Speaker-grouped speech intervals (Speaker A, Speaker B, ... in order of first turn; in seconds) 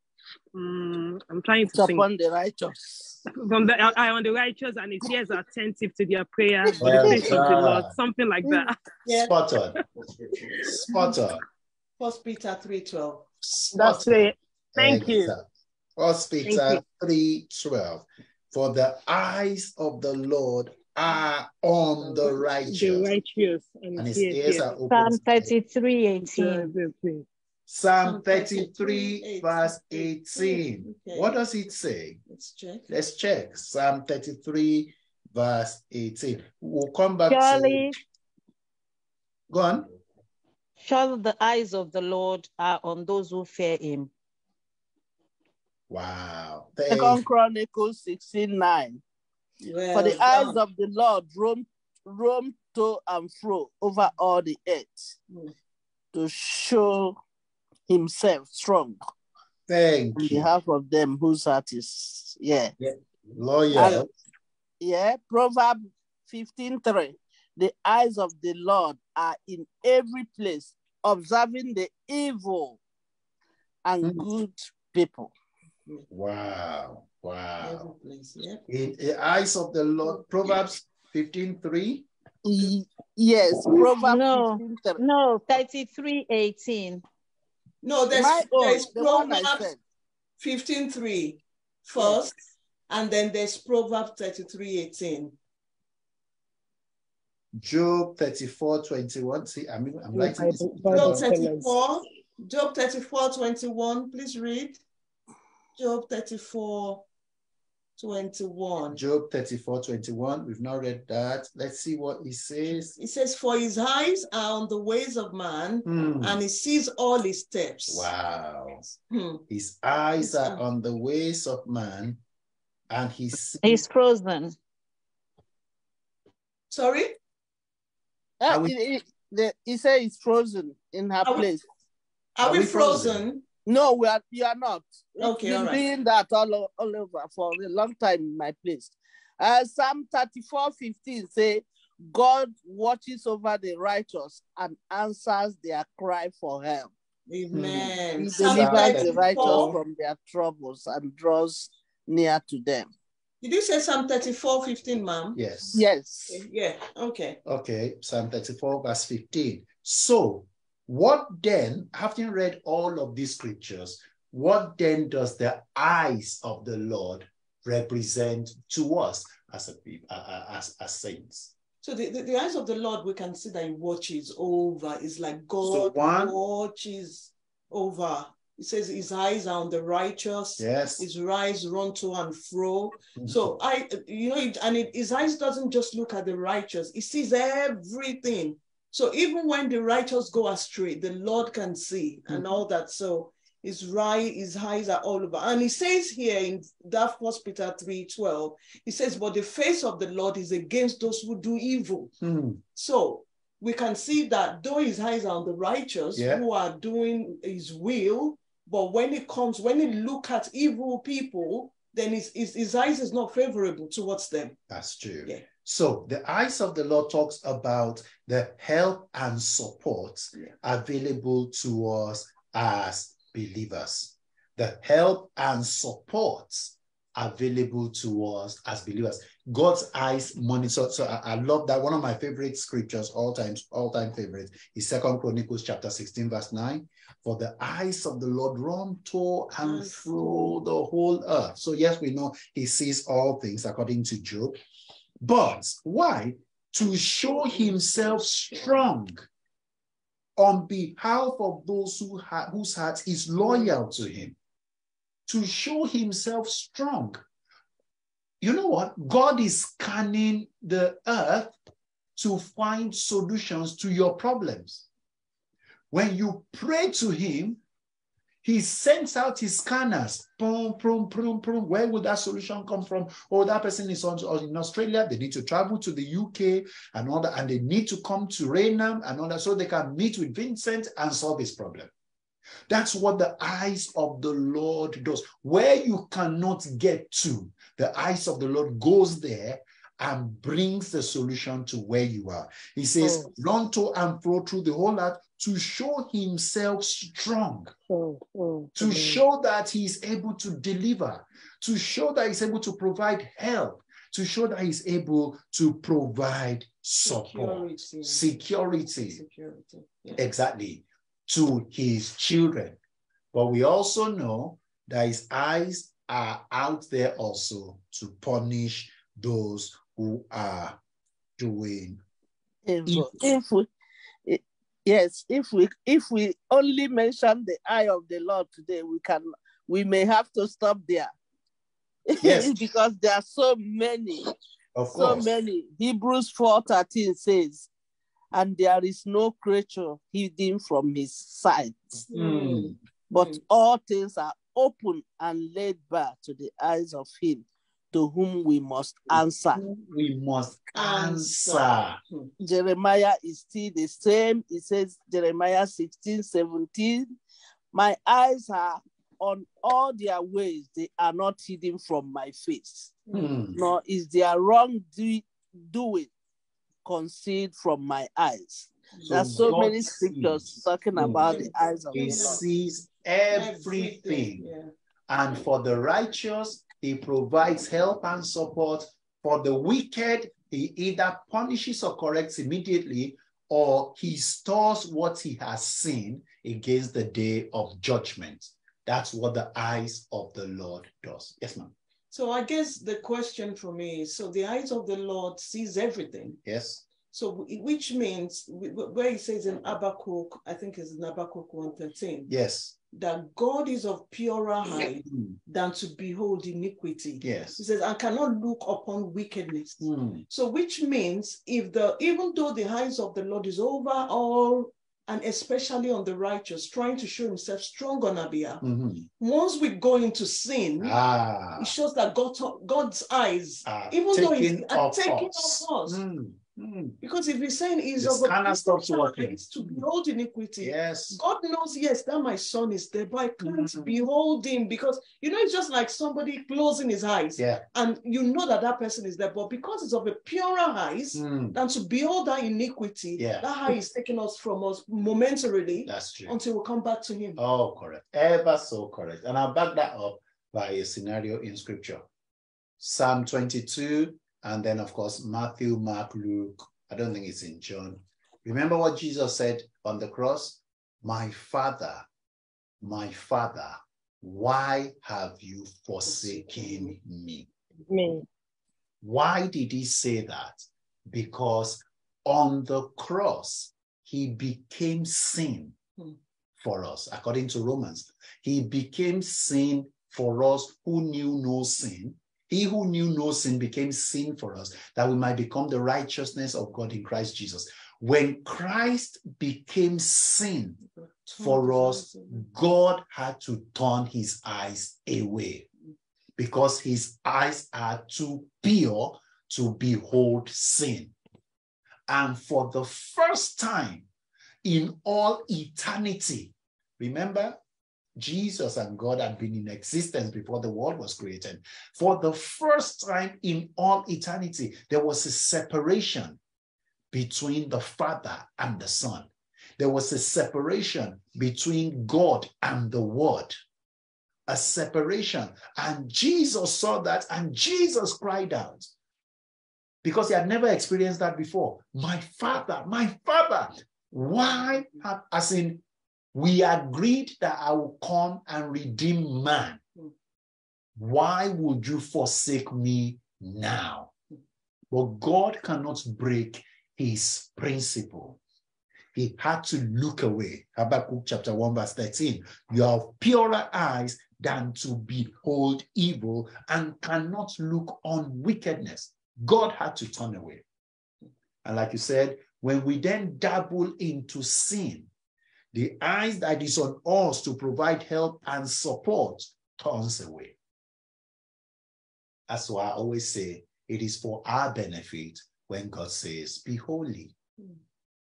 Speaker A: 0.5-2.1, 3.3-8.8, 13.7-15.3, 16.4-16.8, 22.7-24.8, 26.2-27.2, 100.1-101.7, 297.9-299.2, 467.9-468.2
Speaker B: 1.7-3.3, 6.7-7.5, 46.9-49.0, 49.9-55.1, 56.1-57.2, 57.9-59.0, 60.1-62.7, 63.7-64.1, 64.8-72.8, 73.8-75.3, 82.4-85.0, 88.1-89.8, 128.4-131.6, 133.7-146.9, 148.2-152.9, 155.7-156.4, 322.6-323.7, 324.2-331.1, 332.1-334.3, 334.9-337.7, 338.3-342.0, 343.1-349.6, 352.4-357.1, 357.7-366.1, 366.8-372.4
Speaker C: 6.8-7.9, 9.2-9.8, 10.6-11.4, 13.4-15.4, 16.0-23.1, 23.9-25.5, 27.7-32.2, 32.9-37.9, 39.5-39.9, 45.9-47.2, 59.7-60.5, 62.8-64.1, 74.0-74.2, 76.1-77.9, 78.7-82.1, 97.5-101.3, 108.9-112.9, 115.8-116.4, 117.9-118.9, 119.5-122.2, 122.9-123.8, 128.5-128.8, 132.4-133.2, 147.5-149.7, 155.3-155.8, 157.4-171.5, 175.6-176.4, 180.6-181.1, 183.2-183.5, 192.3-192.6, 202.2-202.6, 206.2-206.4, 214.7-244.6, 245.2-249.2, 250.4-254.3, 255.3-257.2, 258.4-261.6, 262.1-264.9, 265.9-267.6, 268.4-281.9, 282.7-297.7, 298.8-309.2, 310.1-312.8, 313.3-320.8, 321.4-322.0, 332.2-332.6, 334.7-335.3, 342.1-342.8, 349.1-352.0, 363.1-363.6, 369.1-374.4, 375.1-391.7, 396.4-396.9, 402.3-402.7, 405.0-405.4, 407.2-407.6, 409.8-410.2, 418.6-419.1, 420.8-421.7, 423.6-427.0, 428.0-429.8, 430.6-431.2, 433.4-433.9, 437.4-437.6, 441.1-441.6, 443.2-443.5, 445.9-446.4, 447.4-452.0, 452.8-462.0, 462.8-467.5, 469.0-475.7, 476.6-490.8, 491.4-495.6, 496.4-501.1, 502.1-504.1, 504.6-507.6, 508.1-516.4, 517.1-523.5, 524.5-528.9, 530.0-535.8, 536.3-539.8, 541.0-544.1, 544.9-548.4, 549.1-560.6, 561.6-565.1, 565.7-570.5, 572.5-577.3
Speaker D: 9.0-9.3, 12.0-13.3, 22.0-22.4, 28.0-31.3, 32.3-32.9, 49.6-50.6, 77.6-78.6, 87.8-89.6, 90.4-92.3, 92.9-95.3, 100.9-104.8, 105.8-107.0, 108.0-109.0, 112.7-118.1, 119.1-119.4, 120.2-120.6, 126.7-127.1, 131.2-131.5, 132.3-133.4, 135.2-135.8, 147.3-149.8, 153.4-155.4, 156.3-157.4, 171.8-202.1, 202.7-214.6, 239.6-240.6, 247.4-248.2, 253.4-253.7, 307.1-308.4, 309.0-310.2, 342.1-343.4, 350.7-352.3, 368.9-369.5, 371.1-372.4, 373.3-374.7, 392.1-396.4, 397.1-402.3, 402.9-418.6, 419.2-421.0, 421.6-426.0, 427.0-447.4, 466.0-466.9, 491.0-492.4
Speaker E: 24.9-26.7, 37.3-38.0, 40.8-44.1, 83.8-87.0, 123.6-124.5